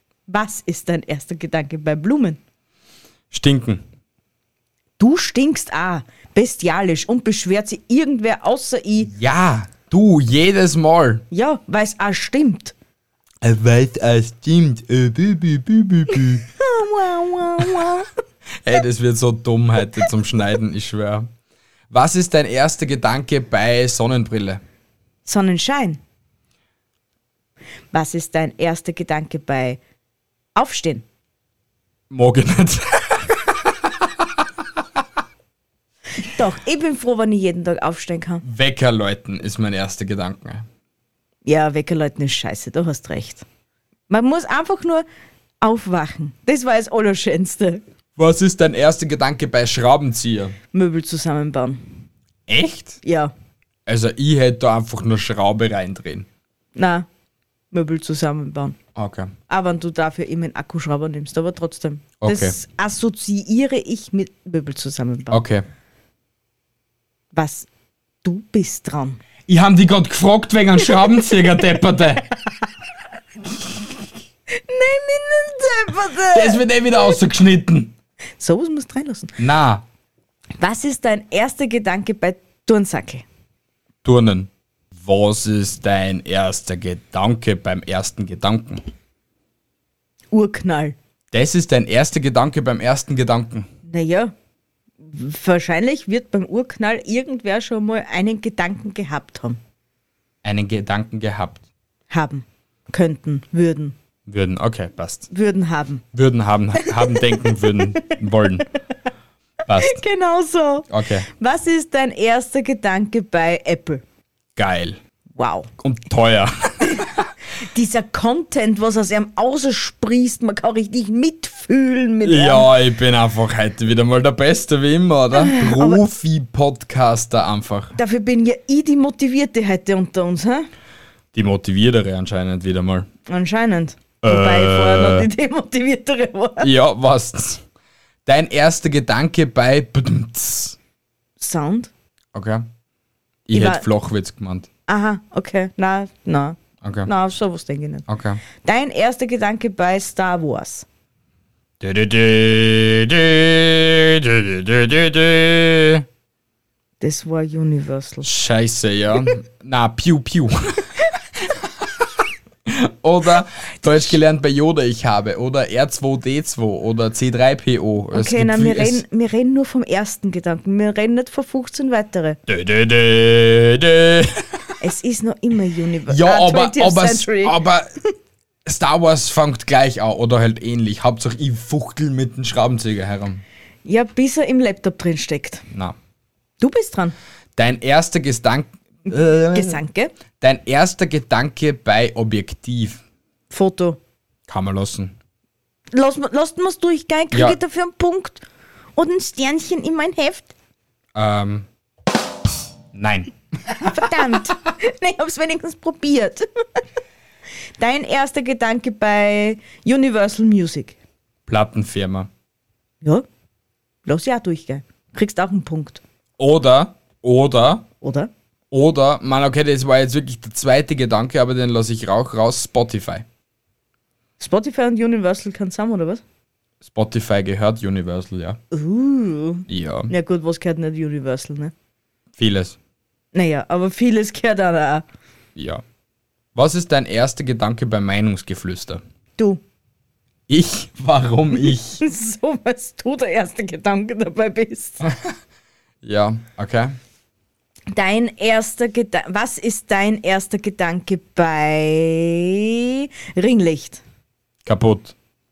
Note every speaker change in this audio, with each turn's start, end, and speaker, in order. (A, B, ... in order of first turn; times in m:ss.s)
0:00.3-0:02.4 A
0:03.3-0:03.8 B
0:05.0-0:09.1 A
0:09.0-0:11.2 B
0:11.3-0:12.7 A
0:13.4-0:16.4 B
0:16.6-0:18.1 A
0:18.6-0:21.3 B
0:21.9-0:24.6 B
0:25.2-0:26.0 A
0:27.9-0:29.8 A
0:30.6-0:31.0 A
0:32.1-0:34.1 B
0:36.2-0:38.4 A
0:38.4-0:40.7 B
0:41.4-0:43.4 A
0:44.1-0:45.0 A
0:45.6-0:47.8 A
0:48.2-0:50.6 B
0:50.7-0:51.8 A
0:52.5-0:53.0 B
0:53.0-0:53.3 A
0:53.8-0:56.3 B
0:56.8-0:57.1 A
0:57.7-0:58.8 A
0:59.0-0:59.3 B
0:59.5-1:05.4 A
1:02.2-1:02.6 B
1:05.3-1:05.6 B
1:07.3-1:07.7 A
1:08.2-1:09.2 A
1:09.5-1:12.3 B
1:14.5-1:17.1 A
1:16.3-1:17.9 B
1:18.4-1:19.4 A
1:19.4-1:19.8 B
1:20.6-1:23.2 A
1:24.0-1:28.8 B
1:30.3-1:31.0 A
1:31.3-1:33.6 B
1:33.8-1:34.3 A
1:35.0-1:39.6 A
1:40.4-1:41.6 B
1:42.1-1:43.9 A
1:44.3-1:45.3 B
1:45.3-1:46.0 A
1:46.1-1:48.7 B
1:46.8-1:47.4 A
1:49.6-1:50.0 B
1:49.8-1:54.0 A
1:50.9-1:51.3 B
1:54.6-1:55.0 B
1:55.4-1:55.7 A
1:55.8-1:57.2 B
1:57.6-2:02.7 A
2:02.2-2:07.9 B
2:05.3-2:06.0 A
2:08.0-2:10.7 A
2:11.3-2:13.1 B
2:13.3-2:16.7 A
2:14.2-2:15.3 B
2:16.6-2:17.6 B
2:18.2-2:20.8 B
2:21.4-2:21.9 A
2:22.3-2:22.6 B
2:23.5-2:24.7 B
2:23.5-2:23.8 A
2:24.9-2:28.0 A
2:26.8-2:27.1 B
2:28.1-2:28.4 B
2:28.6-2:30.8 A
2:31.8-2:36.0 B
2:37.0-2:38.3 A
2:38.2-2:40.9 B
2:42.6-2:49.0 B
2:48.1-2:52.4 A
2:52.5-2:54.5 B
2:54.8-2:57.6 A
2:56.1-2:57.9 B
2:58.6-3:03.4 B
3:03.8-3:05.6 A
3:06.6-3:07.1 A
3:07.6-3:09.8 B
3:09.5-3:10.1 A
3:10.4-3:13.0 B
3:13.5-3:14.0 A
3:14.5-3:15.2 B
3:15.9-3:18.4 A
3:17.3-3:17.6 B
3:19.0-3:20.5 A
3:21.1-3:21.7 B
3:22.9-3:23.9 B
3:23.8-3:26.4 A
3:27.8-3:31.0 A
3:31.5-3:32.3 B
3:34.0-3:36.0 A
3:36.4-3:37.9 B
3:38.0-3:38.3 A
3:38.7-3:43.2 B
3:44.4-3:46.2 A
3:46.8-3:48.6 B
3:48.7-3:51.7 A
3:49.7-3:50.1 B
3:52.4-3:52.8 B
3:53.3-3:55.0 A
3:55.6-3:55.8 B
3:56.5-3:59.0 B
3:59.4-3:59.6 A
4:00.5-4:02.0 B
4:02.0-4:05.0 A
4:06.0-4:07.0 B
4:07.9-4:14.0 A
4:14.6-4:15.1 B